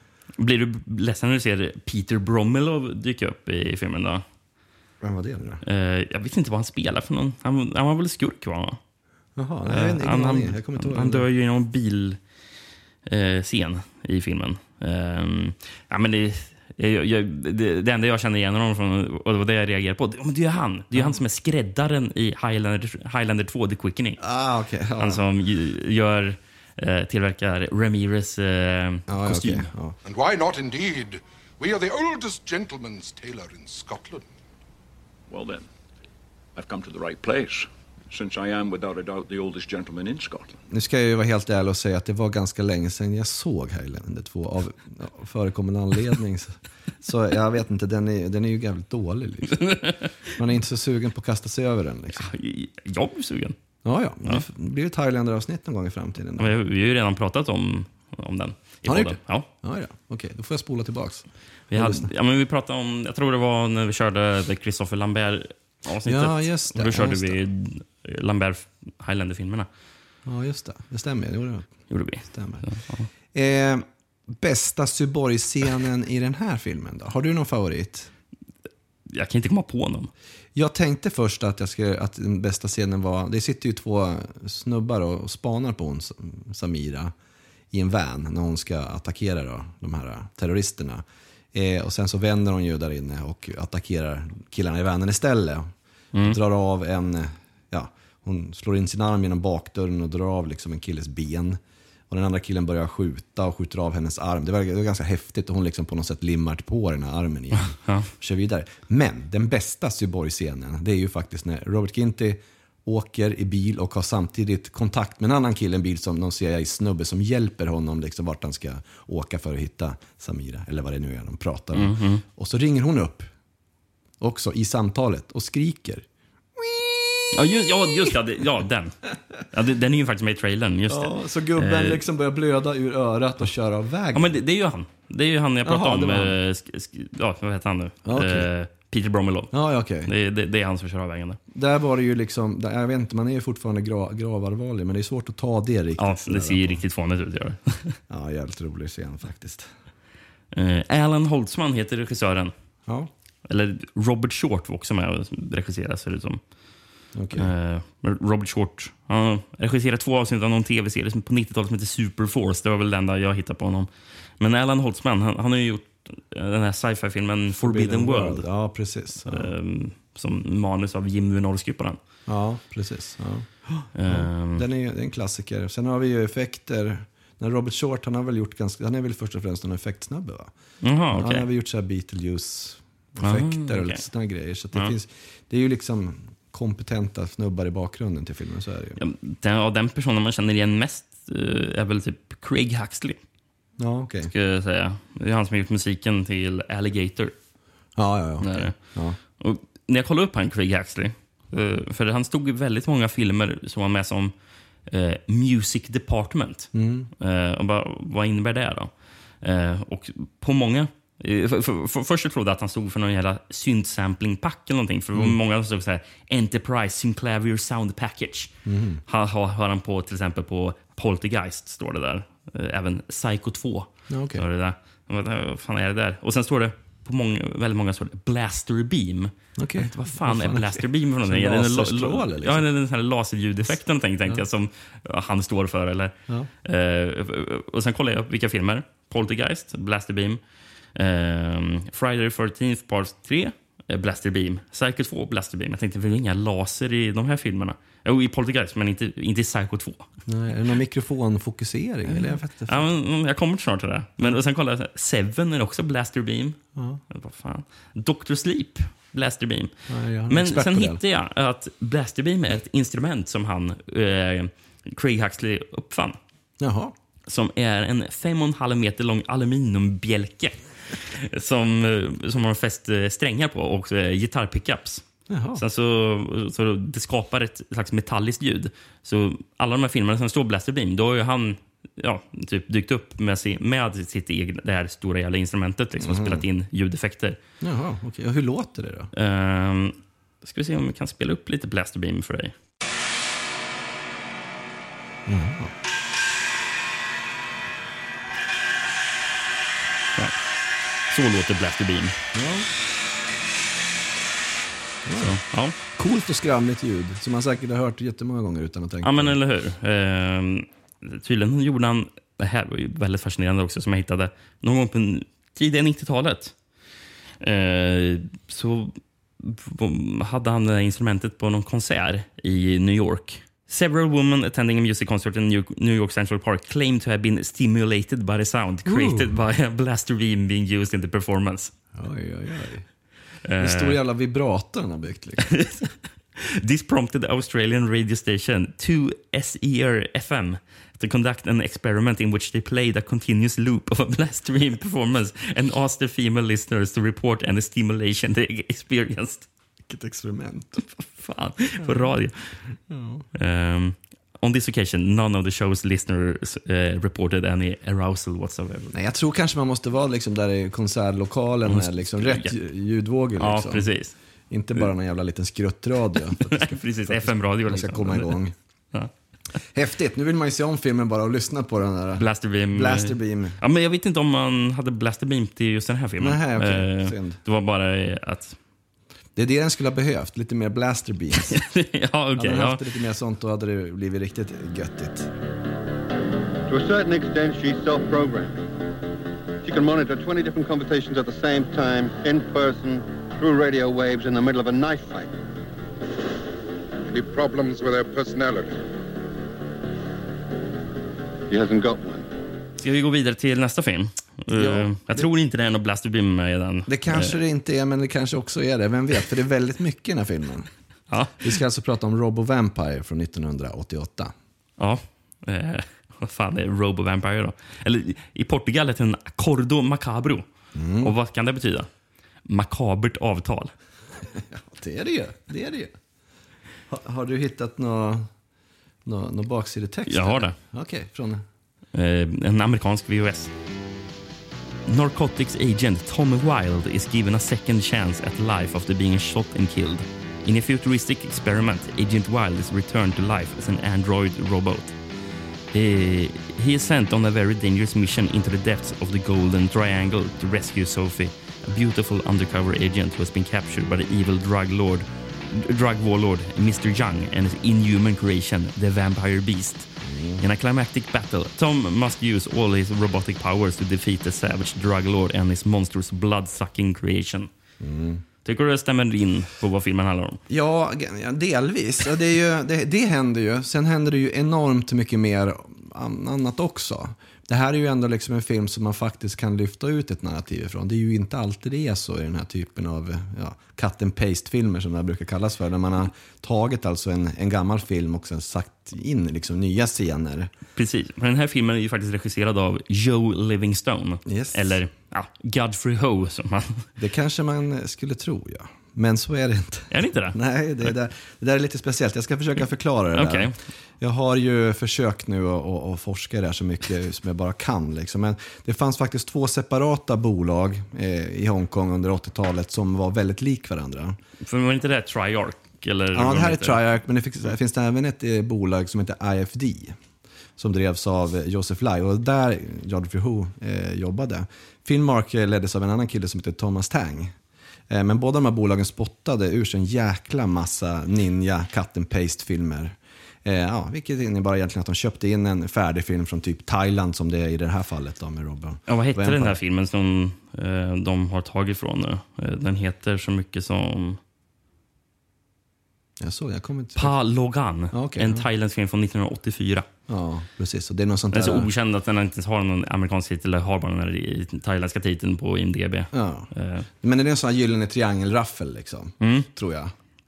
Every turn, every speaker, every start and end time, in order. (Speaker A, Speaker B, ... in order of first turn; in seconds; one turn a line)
Speaker A: 0.4-4.2
Speaker B: 5.0-5.6
Speaker A: 5.6-8.8
Speaker B: 9.4-11.2
Speaker A: 9.7-12.2
Speaker A: 13.1-24.2
Speaker B: 24.2-25.2
Speaker A: 25.0-29.7
Speaker B: 29.1-30.0
Speaker C: 30.0-34.3
Speaker D: 35.3-35.6
Speaker D: 36.6-40.6
Speaker B: 40.7-49.8
Speaker A: 49.6-50.1
Speaker B: 50.3-52.3
Speaker A: 52.2-53.6
Speaker B: 53.8-56.5
Speaker A: 56.4-59.5
Speaker B: 58.9-62.1
Speaker A: 61.7-69.7
Speaker B: 66.1-67.4
Speaker B: 70.2-72.6
Speaker A: 71.9-73.1
Speaker B: 73.3-78.1
Speaker A: 79.1-80.1
Speaker B: 80.5-87.1
Speaker B: 87.7-101.6
Speaker B: 102.1-123.3
Speaker A: 107.5-108.1
Speaker A: 121.8-122.2
Speaker B: 124.2-126.1
Speaker B: 126.6-127.3
Speaker A: 127.3-129.0
Speaker A: 129.5-132.0
Speaker B: 130.9-134.4
Speaker A: 134.1-139.5
Speaker B: 135.6-136.3
Speaker B: 138.1-138.5
Speaker B: 139.5-140.1
Speaker A: 140.0-141.4
Speaker B: 141.5-146.8
Speaker A: 146.0-148.0
Speaker B: 148.1-149.7
Speaker A: 150.5-152.5
Speaker A: 153.5-156.4
Speaker B: 157.1-157.5
Speaker A: 157.4-168.4
Speaker B: 167.6-169.5
Speaker A: 169.3-172.0
Speaker B: 172.3-180.5
Speaker A: 173.9-174.7
Speaker A: 180.8-181.5
Speaker B: 181.1-189.0
Speaker A: 183.2-184.0
Speaker A: 189.0-193.2
Speaker B: 193.8-194.3
Speaker A: 194.3-197.3
Speaker B: 198.0-199.2
Speaker A: 198.4-198.8
Speaker A: 199.4-204.3
Speaker A: 204.9-218.5
Speaker B: 206.7-207.1
Speaker B: 218.7-219.0
Speaker A: 219.1-240.4
Speaker B: 224.1-224.4
Speaker B: 229.6-232.7
Speaker A: 240.9-250.1
Speaker B: 250.3-252.9
Speaker A: 252.1-259.7
Speaker B: 256.8-257.0
Speaker B: 259.9-261.0
Speaker A: 260.3-266.2
Speaker B: 266.6-266.9
Speaker A: 267.3-287.4
Speaker B: 275.3-275.6
Speaker B: 286.0-286.4
Speaker B: 287.6-289.1
Speaker A: 289.1-292.6
Speaker B: 295.3-295.7
Speaker A: 301.1-302.2
Speaker B: 302.3-302.7
Speaker B: 305.1-305.4
Speaker A: 305.2-305.8
Speaker B: 305.9-309.4
Speaker A: 309.0-316.6
Speaker A: 317.4-331.7
Speaker B: 328.9-329.3
Speaker B: 331.9-332.9
Speaker A: 333.4-334.0
Speaker B: 333.6-335.5
Speaker A: 335.4-349.5
Speaker B: 349.9-350.8
Speaker A: 350.9-352.6
Speaker B: 351.8-352.1
Speaker B: 352.9-353.3
Speaker A: 353.3-358.9
Speaker B: 358.9-363.9
Speaker A: 361.7-362.5
Speaker A: 363.4-364.1
Speaker B: 364.5-368.6
Speaker A: 366.4-368.4
Speaker B: 369.7-373.6
Speaker A: 372.2-378.6
Speaker B: 376.2-377.4
Speaker B: 379.4-381.6
Speaker A: 381.4-382.8
Speaker B: 382.4-385.3
Speaker E: 386.7-388.6
Speaker E: 389.6-395.3
Speaker E: 397.1-398.8
Speaker E: 401.5-402.2
Speaker A: 402.8-407.4
Speaker B: 404.5-405.3
Speaker B: 406.9-410.7
Speaker A: 411.1-411.5
Speaker B: 411.4-414.3
Speaker A: 414.8-420.4
Speaker B: 420.8-421.1
Speaker A: 421.0-421.9
Speaker A: 422.5-423.7
Speaker B: 424.3-425.9
Speaker B: 426.9-428.3
Speaker B: 429.1-431.4
Speaker A: 430.1-430.6
Speaker A: 431.9-433.5
Speaker A: 434.9-444.9
Speaker A: 445.7-467.5
Speaker B: 460.0-460.4
Speaker B: 467.8-468.2
Speaker A: 468.4-470.4
Speaker B: 470.5-490.5
Speaker A: 490.8-496.9
Speaker B: 494.3-494.8
Speaker B: 497.0-514.2
Speaker A: 499.9-500.4
Speaker A: 503.1-503.6
Speaker A: 514.4-516.8
Speaker B: 516.1-520.0
Speaker B: 520.6-527.4
Speaker B: 527.9-539.6
Speaker A: 538.9-544.2
Speaker B: 546.2-547.1
Speaker A: 547.0-549.9
Speaker B: 547.9-548.5
Speaker B: 550.1-551.7
Speaker A: 551.3-556.9
Speaker B: 556.1-559.9
Speaker A: 559.2-559.5